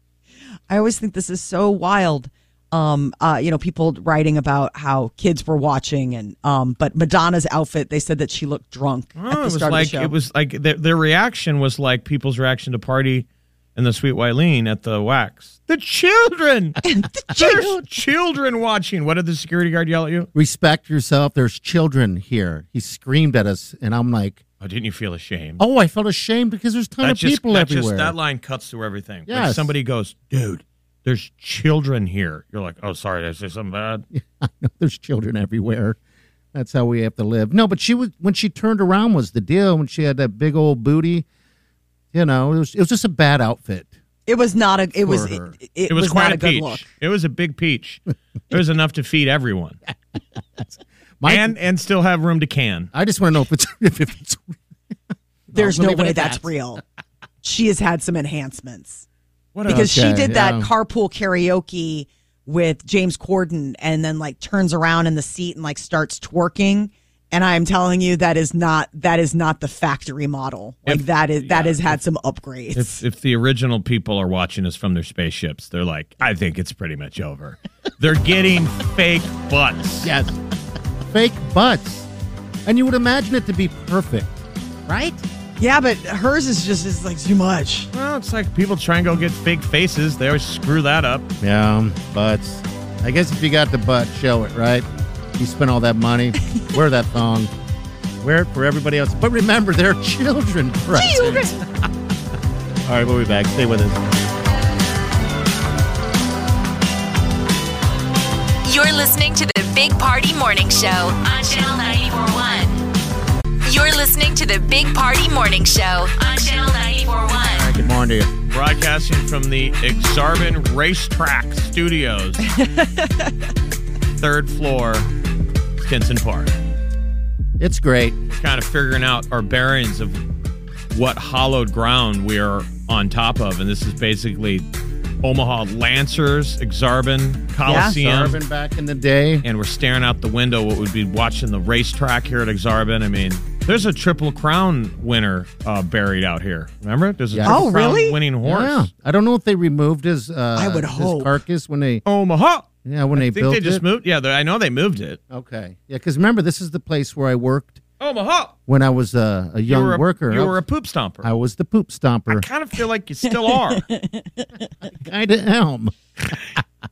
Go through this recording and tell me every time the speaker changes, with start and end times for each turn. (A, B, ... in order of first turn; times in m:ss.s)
0:00.7-0:10.1 A
0:09.2-0:20.3 B
0:16.8-0:17.8 A
0:20.3-0:24.4 C
0:24.6-0:25.6 B
0:25.6-0:28.2 C
0:27.0-0:34.0 B
0:29.3-0:29.7 C
0:34.1-0:36.0 C
0:36.5-0:41.2 C
0:42.1-0:43.9 C
0:44.3-0:46.8 A
0:45.0-0:45.5 C
0:45.9-0:49.8 B
0:50.6-0:51.5 C
0:51.2-0:52.9 B
0:52.9-0:54.5 C
0:55.5-0:56.5 C
0:55.5-0:56.8 A
0:57.4-0:59.0 A
0:59.5-0:59.9 B
0:59.7-1:00.7 C
0:59.7-1:13.0 A
1:10.9-1:12.0 B
1:12.7-1:20.1 B
1:20.0-1:20.4 C
1:21.1-1:22.1 C
1:22.6-1:25.2 C
1:25.6-1:27.9 A
1:27.9-1:31.3 B
1:31.4-1:37.5 C
1:38.2-1:41.9 C
1:40.9-1:41.6 A
1:42.8-1:44.0 C
1:48.6-1:52.8 D
1:53.6-1:57.7 D
1:57.5-1:58.3 C
1:58.5-2:02.5 B
2:02.6-2:03.1 A
2:04.2-2:05.1 B
2:05.8-2:06.5 B
2:07.6-2:08.2 C
2:08.3-2:10.2 B
2:10.9-2:14.6 B
2:15.2-2:18.4 B
2:17.6-2:18.0 A
2:17.7-2:19.4 C
2:19.4-2:28.9 B
2:27.3-2:27.7 C
2:27.4-2:28.2 A
2:28.4-2:32.0 C
2:30.5-2:31.4 A
2:32.0-2:35.2 B
2:32.8-2:33.8 C
2:35.3-2:37.8 C
2:38.0-2:38.5 B
2:38.7-2:40.6 C
2:39.7-2:41.3 B
2:41.2-2:42.5 C
2:42.3-2:43.8 B
2:43.5-2:44.5 A
2:44.9-2:46.3 C